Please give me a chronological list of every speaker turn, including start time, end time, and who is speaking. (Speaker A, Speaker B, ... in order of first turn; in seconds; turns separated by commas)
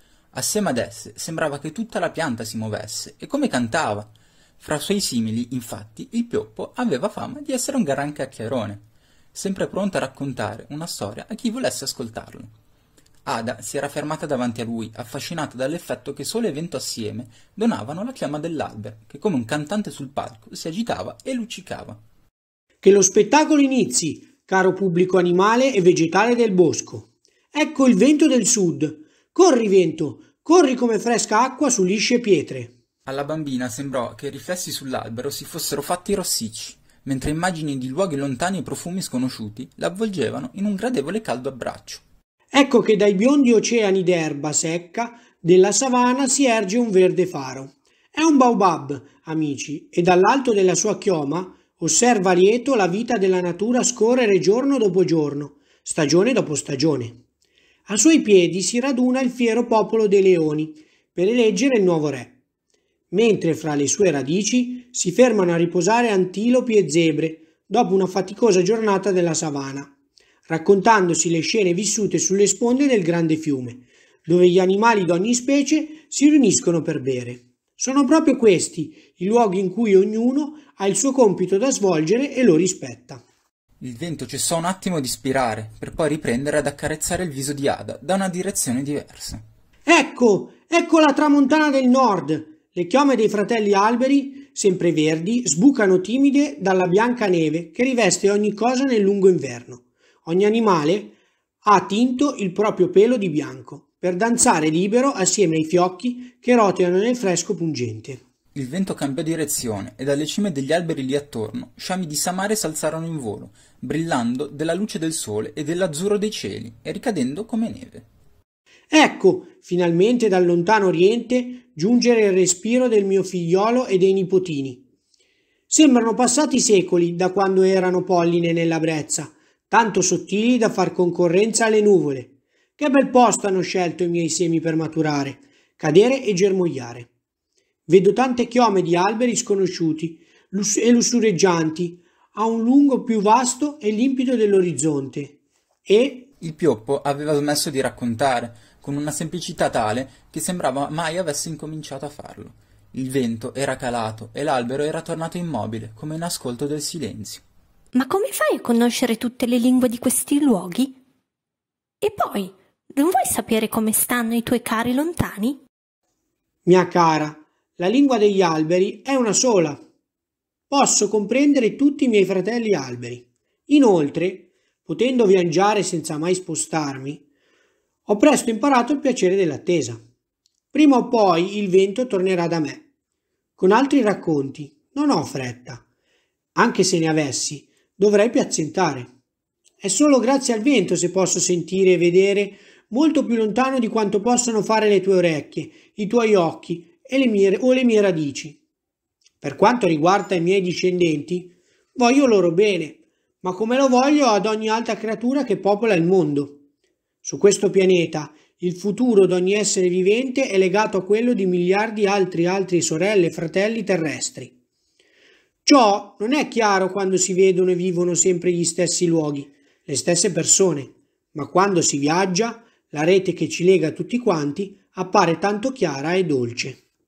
Speaker A: 0.3-12.5, Speaker A: 13.2-22.0, Speaker B: 22.8-32.7, Speaker A: 33.0-42.0, Speaker B: 42.5-57.2, Speaker B: 57.9-62.4, Speaker B: 63.1-69.9, Speaker B: 70.5-83.2, Speaker A: 83.8-89.4, Speaker B: 89.8-108.2, Speaker A: 108.5-118.0, Speaker B: 118.9-124.8, Speaker B: 125.7-137.1, Speaker B: 137.9-146.3, Speaker A: 146.4-157.4, Speaker C: 157.9-160.9, Speaker C: 162.0-165.6, Speaker B: 166.7-169.8, Speaker B: 170.7-177.2, Speaker B: 178.1-180.0, Speaker B: 180.7-182.8, Speaker B: 183.6-185.8, Speaker B: 186.5-189.1, Speaker B: 189.8-198.6, Speaker B: 199.4-206.6, Speaker B: 207.2-214.5, Speaker B: 215.6-226.8